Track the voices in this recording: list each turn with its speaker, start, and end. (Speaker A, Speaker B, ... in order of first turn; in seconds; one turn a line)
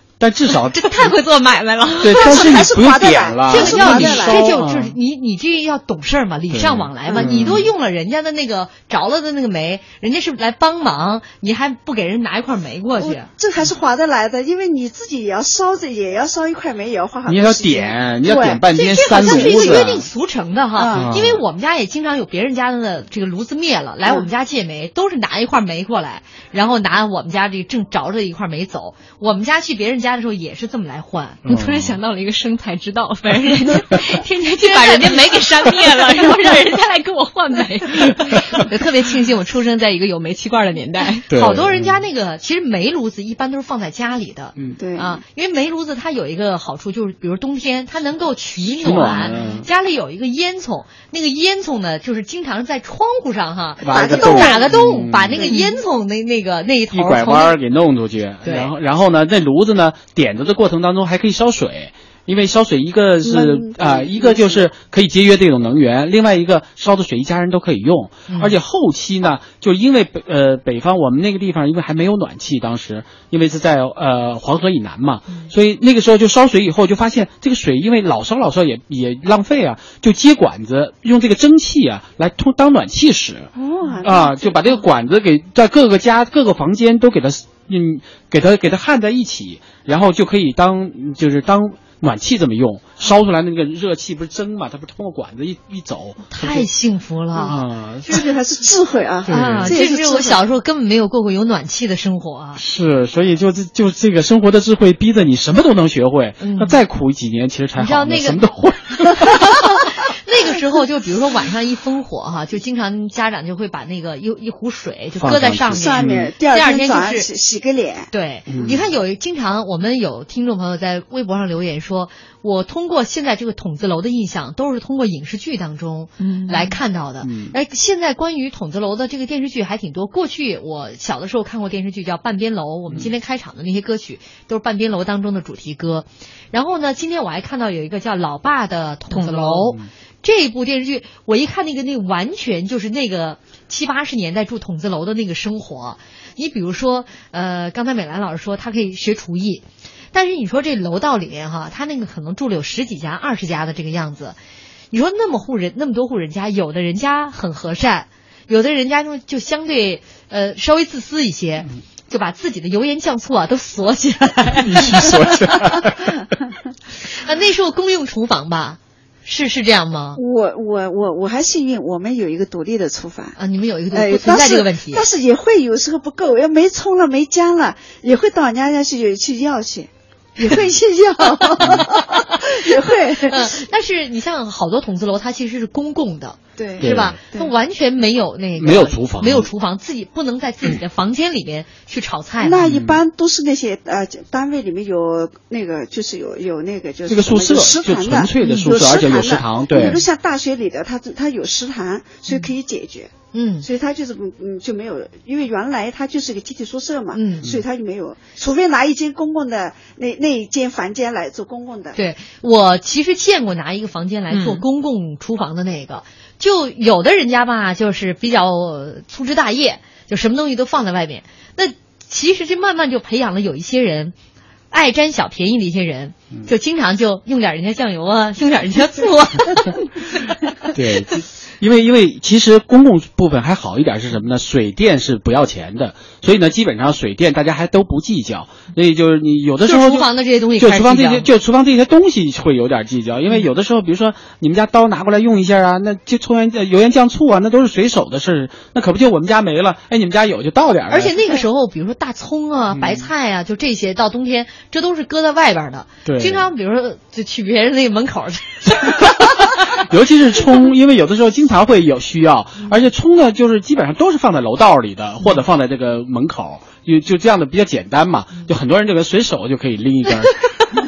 Speaker A: 0.2-1.1
Speaker B: 0.8-2.7
Speaker A: 2.0-5.0
Speaker C: 2.0-4.6
Speaker B: 3.5-13.3
Speaker A: 6.5-7.7
Speaker C: 7.1-7.5
Speaker C: 13.0-19.9
Speaker A: 17.2-20.1
Speaker B: 18.7-31.4
Speaker C: 20.8-21.2
Speaker A: 20.9-21.4
Speaker A: 31.4-32.0
Speaker D: 31.4-41.3
Speaker B: 34.6-36.6
Speaker A: 41.3-42.0
Speaker B: 41.3-57.6
Speaker C: 44.8-45.2
Speaker A: 48.8-49.7
Speaker A: 53.8-55.5
Speaker C: 53.9-54.7
Speaker C: 55.4-55.7
Speaker A: 56.9-83.5
Speaker B: 58.4-58.7
Speaker C: 63.2-64.7
Speaker B: 68.3-68.6
Speaker C: 83.6-84.8
Speaker A: 84.0-96.7
Speaker B: 96.3-97.6
Speaker A: 97.4-98.2
Speaker C: 97.4-100.4
Speaker A: 99.3-99.8
Speaker B: 99.3-102.6
Speaker A: 102.6-109.6
Speaker B: 106.4-106.8
Speaker B: 107.8-108.5
Speaker B: 109.0-117.3
Speaker A: 115.2-116.3
Speaker C: 115.7-118.1
Speaker B: 118.1-154.4
Speaker A: 118.5-118.8
Speaker D: 126.2-126.8
Speaker A: 127.2-127.5
Speaker A: 139.1-139.9
Speaker B: 154.9-165.5
Speaker A: 164.6-166.1
Speaker B: 167.1-170.2
Speaker C: 170.2-173.4
Speaker B: 173.4-175.0
Speaker C: 173.9-183.5
Speaker B: 181.6-181.8
Speaker B: 183.3-192.6
Speaker C: 186.6-187.5
Speaker A: 186.8-187.2
Speaker A: 188.6-189.5
Speaker C: 192.4-212.0
Speaker A: 192.6-193.0
Speaker A: 197.1-200.0
Speaker B: 199.8-200.0
Speaker B: 203.3-203.7
Speaker B: 207.1-207.5
Speaker B: 212.0-224.2
Speaker D: 214.3-214.6
Speaker B: 224.7-230.3
Speaker A: 230.7-251.2
Speaker B: 239.6-241.3
Speaker B: 250.9-259.1
Speaker A: 252.7-253.1
Speaker A: 256.1-256.5
Speaker A: 259.0-270.4